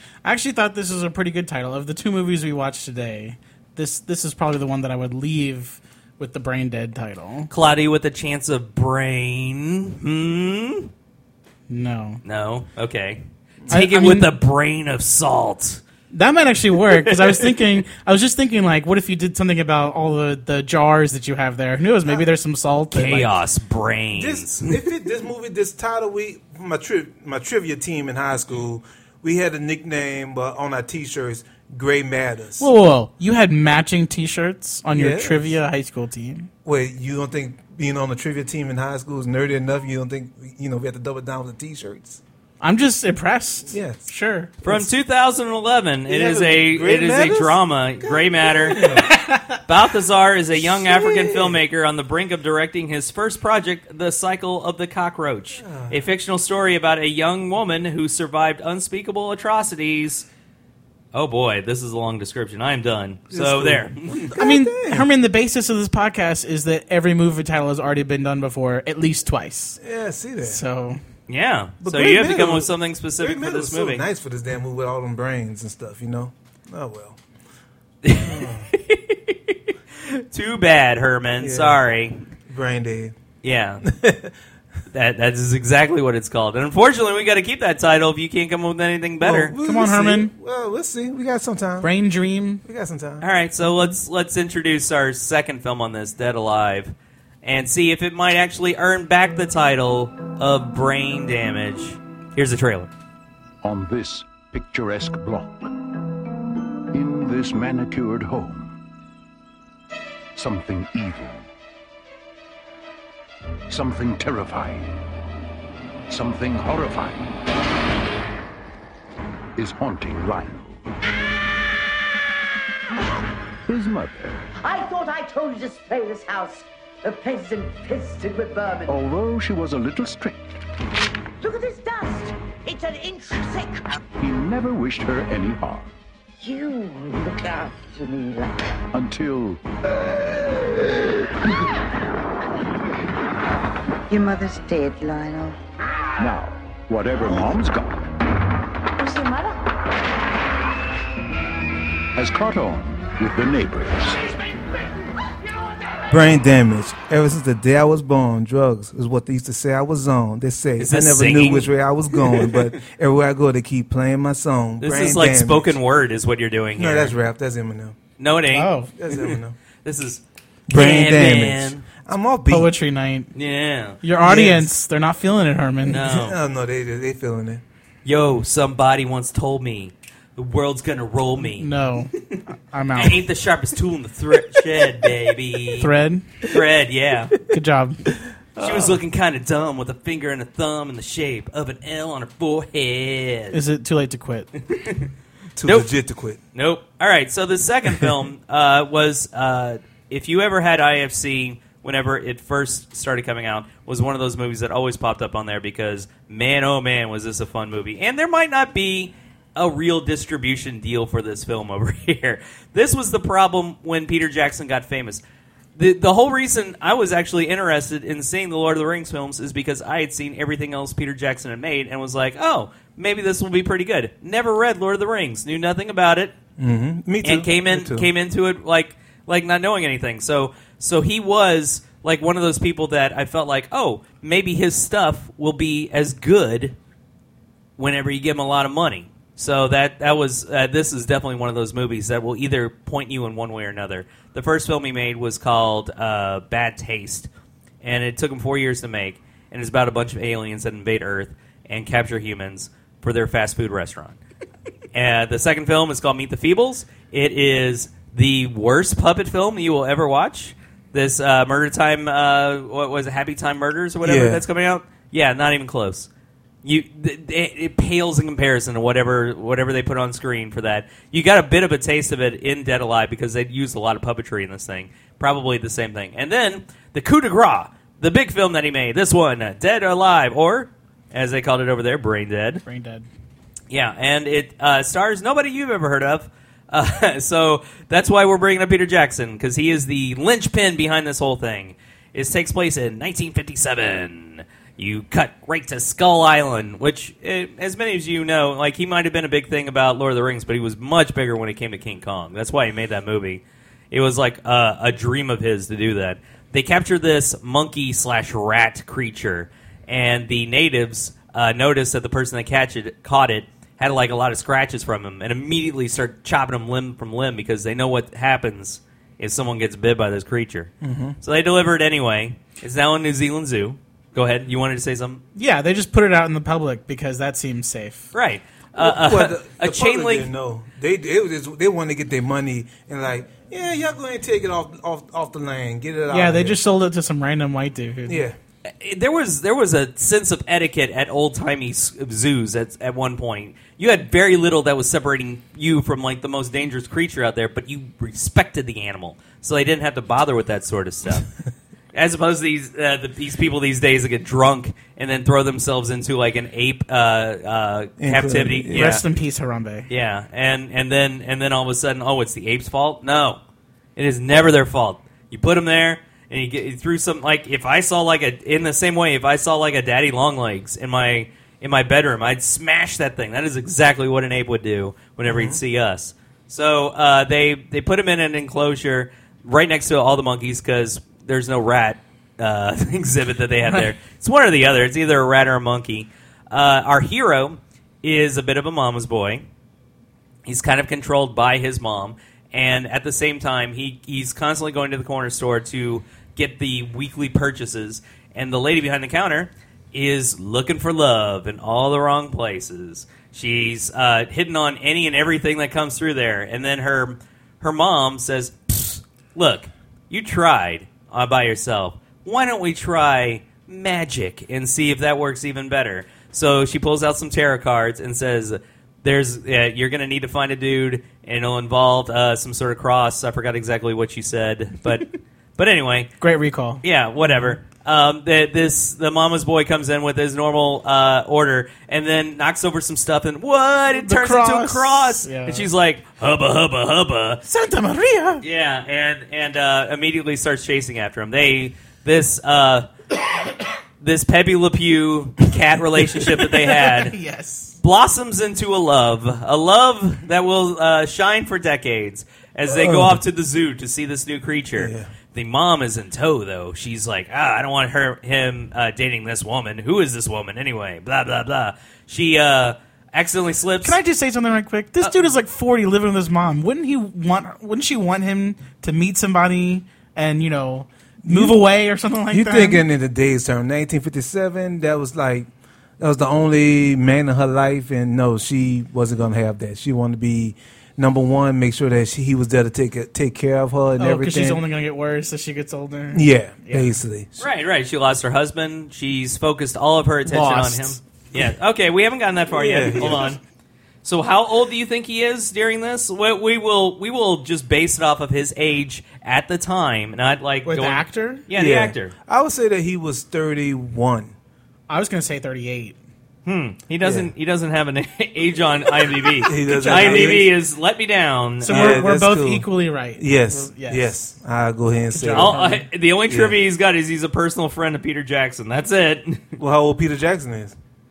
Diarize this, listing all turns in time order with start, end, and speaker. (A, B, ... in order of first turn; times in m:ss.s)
0:00.2-0:07.5 A
0:07.5-0:10.9 B
0:11.7-0:12.2 A
0:12.2-0:15.8 B
0:13.7-0:14.3 A
0:16.1-0:23.3 A
0:16.9-0:17.5 B
0:22.9-0:24.8 B
0:24.2-0:32.7 C
0:32.6-0:36.5 A
0:34.9-0:35.6 C
0:36.6-0:42.2 C
0:42.6-0:44.5 A
0:43.7-0:44.1 C
0:44.6-0:44.9 C
0:44.6-0:49.1 B
0:46.1-0:49.1 C
0:48.8-0:49.4 A
0:49.6-1:00.3 B
0:50.6-0:51.6 C
0:55.6-0:56.0 C
1:01.1-1:04.3 B
1:03.3-1:05.1 C
1:04.4-1:09.8 A
1:09.8-1:10.6 C
1:10.4-1:11.0 A
1:11.3-1:14.0 B
1:11.8-1:17.2 C
1:18.0-1:22.2 B
1:18.2-1:18.7 C
1:21.4-1:21.8 C
1:22.5-1:23.1 C
1:23.4-1:23.8 B
1:23.8-1:24.3 C
1:24.9-1:29.5 B
1:29.2-1:31.9 C
1:29.6-1:30.3 A
1:31.8-1:32.6 A
1:32.6-1:33.2 C
1:33.2-1:42.9 B
1:43.6-1:45.7 D
1:46.9-1:48.7 D
1:50.4-1:51.5 D
1:53.7-1:55.0 D
1:56.1-1:57.4 D
1:59.6-2:00.8 D
2:03.7-2:04.5 D
2:04.6-2:09.0 E
2:08.9-2:10.5 D
2:11.4-2:13.8 E
2:14.2-2:15.9 D
2:16.4-2:18.6 E
2:18.9-2:19.6 D
2:24.1-2:25.6 E
2:26.2-2:28.0 D
2:29.0-2:29.6 E
2:32.1-2:34.2 D
2:36.1-2:45.7 C
2:40.8-2:42.5 B
2:44.8-2:47.1 B
2:46.8-2:48.0 C
2:48.2-2:51.8 B
2:48.5-2:48.9 A
2:49.0-2:49.6 C
2:50.7-2:52.7 C
2:52.5-2:53.3 A
2:53.3-2:54.0 B
2:54.0-2:56.0 A
2:54.2-2:54.7 C
2:55.9-2:56.4 B
2:55.9-2:57.6 C
2:58.0-3:01.7 B
3:01.4-3:02.2 A
3:02.7-3:03.2 A
3:03.0-3:05.9 B
3:05.8-3:06.3 A
3:06.4-3:07.4 B
3:07.5-3:08.1 A
3:08.6-3:13.6 B
3:08.6-3:09.0 C
3:13.5-3:14.5 A
3:14.7-3:15.1 B
3:15.6-3:16.4 C
3:15.6-3:15.9 B
3:16.5-3:35.2 B
3:35.8-3:46.3 B
3:46.6-3:48.1 C
3:47.2-3:56.8 B
3:57.8-4:07.3 B
4:07.8-4:14.2 B
4:14.9-4:26.1 B
4:24.0-4:24.4 C
4:26.6-4:42.6 B
4:42.6-4:43.1 A
4:43.7-5:25.2 B
5:20.8-5:21.2 C
5:25.3-5:28.1 A
5:28.1-5:30.3 B
5:28.8-5:36.6 C
5:36.1-5:38.2 A
5:38.1-5:38.4 C
5:38.7-5:51.3 B
5:51.9-5:59.0 B
5:58.0-5:59.0 C
5:58.7-5:59.9 A
5:59.9-6:03.4 B
6:04.0-6:29.5 B
6:15.2-6:15.6 C
6:30.4-7:06.1 B
7:06.2-7:07.5 A
7:06.8-7:17.4 B
7:13.9-7:15.7 A
7:17.4-7:18.4 A
7:18.4-7:22.9 B
7:24.0-7:27.1 B
7:26.4-7:27.8 A
7:27.8-7:44.0 B
7:32.7-7:33.2 C
7:34.8-7:35.1 C
7:43.8-7:52.8 A
7:51.2-7:51.6 C
7:52.3-7:55.5 C
7:56.0-8:04.6 C
8:04.0-8:06.9 A
8:06.1-8:07.3 C
8:07.4-8:13.4 B
8:10.2-8:11.0 A
8:12.5-8:13.4 C
8:14.0-8:22.1 B
8:20.6-8:21.4 A
8:21.5-8:24.3 C
8:24.9-8:26.0 A
8:26.4-8:32.0 B
8:27.0-8:27.3 C
8:29.4-8:30.5 C
8:29.5-8:30.5 A
8:31.6-8:34.1 A
8:31.7-8:35.6 C
8:35.1-8:35.8 A
8:35.3-8:39.6 B
8:36.3-8:36.6 C
8:39.6-8:40.7 C